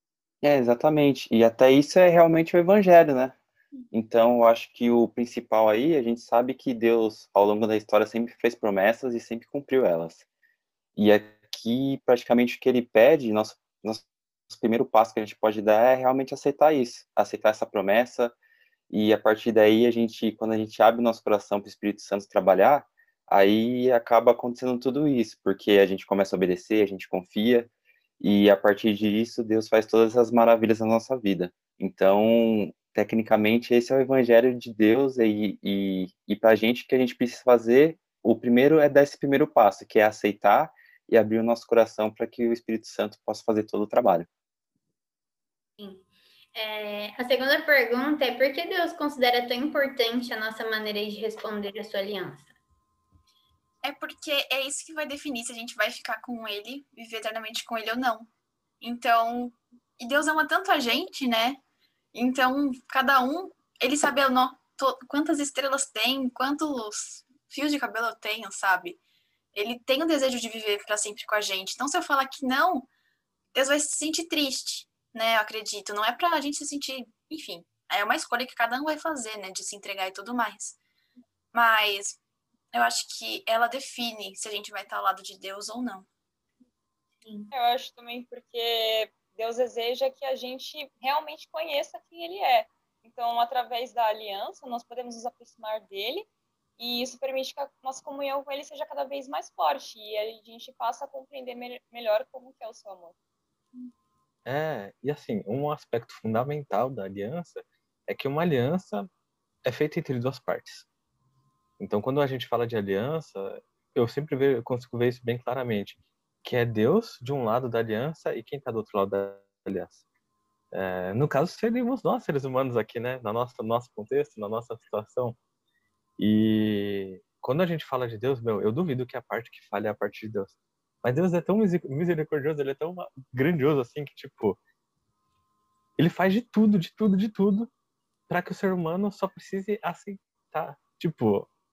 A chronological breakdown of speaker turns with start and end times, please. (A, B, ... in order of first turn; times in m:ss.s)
0:00.4-0:03.4 A
0:03.9-0:10.2 A
0:11.0-0:18.4 A
0:18.9-0:27.7 A
0:28.2-0:44.3 A
0:45.8-0:52.5 B
0:53.8-0:58.3 C
0:58.8-1:01.6 C
1:02.1-1:09.0 C
1:09.5-1:12.9 C
1:13.5-1:20.8 C
1:21.5-1:22.2 C
1:22.7-1:26.1 C
1:27.2-1:27.5 B
1:27.5-1:43.2 D
1:44.5-1:49.1 E
1:49.6-1:50.9 E
1:51.8-2:00.0 E
2:00.7-2:05.4 E
2:06.2-2:14.6 E
2:16.0-2:17.7 E
2:18.3-2:21.5 E